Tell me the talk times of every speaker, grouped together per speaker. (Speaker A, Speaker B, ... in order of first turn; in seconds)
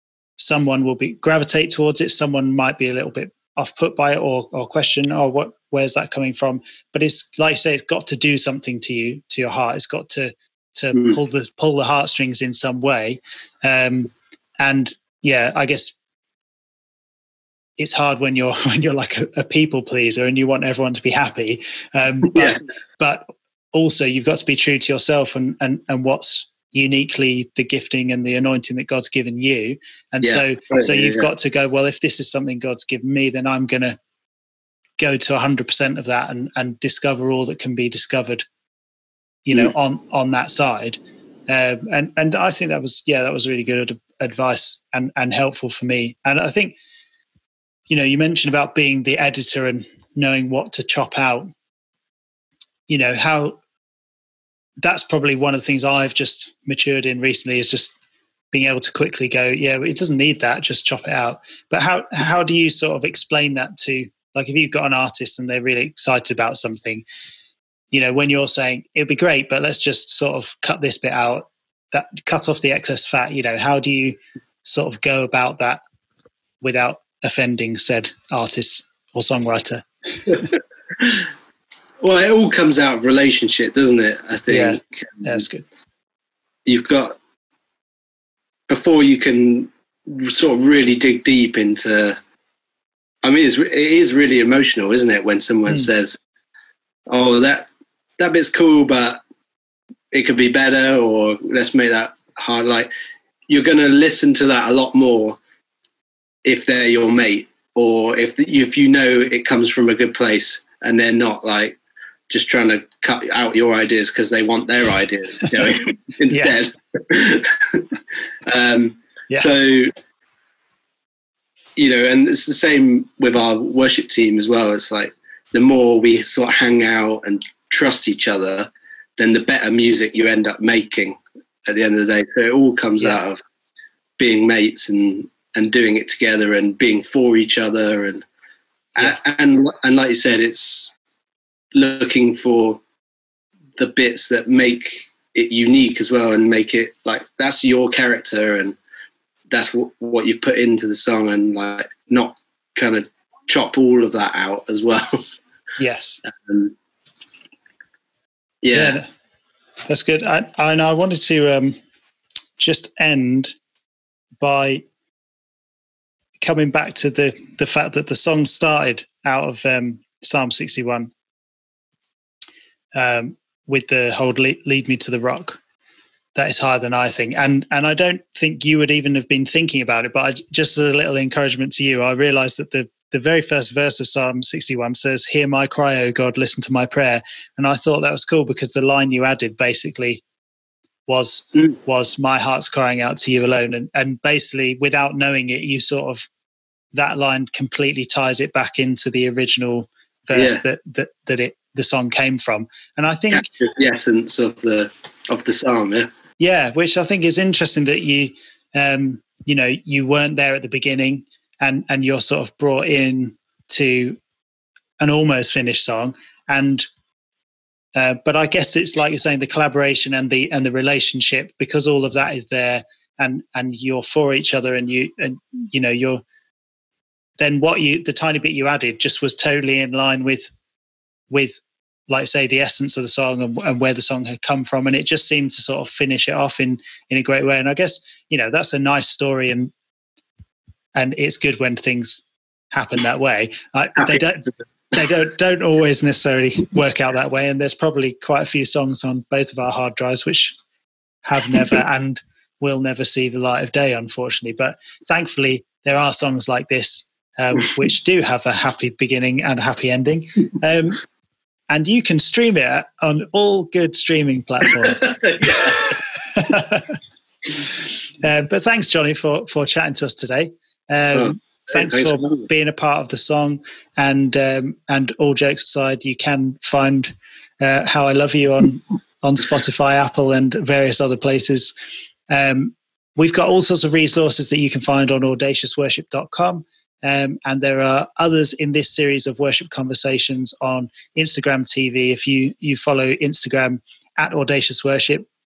Speaker A: 0.4-15.9, 17.8-34.0, 35.0-38.5, 39.5-46.8, 47.9-51.5, 52.9-53.6, 54.8-58.0, 58.5-67.0, 67.9-75.8, 76.6-80.5, 84.5-85.6, 155.8-156.2, 158.7-159.1, 159.9-161.8, 162.6-163.5, 164.4-164.8, 166.4-171.1, 172.9-175.6, 176.3-190.2, 191.1-196.3, 196.9-203.4, 206.4-214.2, 215.0-216.9, 217.9-226.2, 227.4-230.5, 231.3-239.7, 240.9-250.6, 251.2-261.0, 261.7-267.0, 267.5-281.7, 282.3-295.2
Speaker B: 22.3-22.6, 30.2-31.3, 81.0-81.2, 82.0-85.4, 86.7-87.2, 88.7-92.2, 93.2-96.2, 97.1-99.2, 100.1-102.9, 103.5-105.4, 106.4-111.8, 112.3-117.9, 118.4-119.9, 121.8-133.4, 134.2-138.2, 138.9-140.9, 141.7-142.8, 143.8-148.8, 149.5-155.2, 156.2-156.7, 158.6-159.0, 200.3-200.6, 203.3-206.1, 264.8-265.8, 271.1-272.5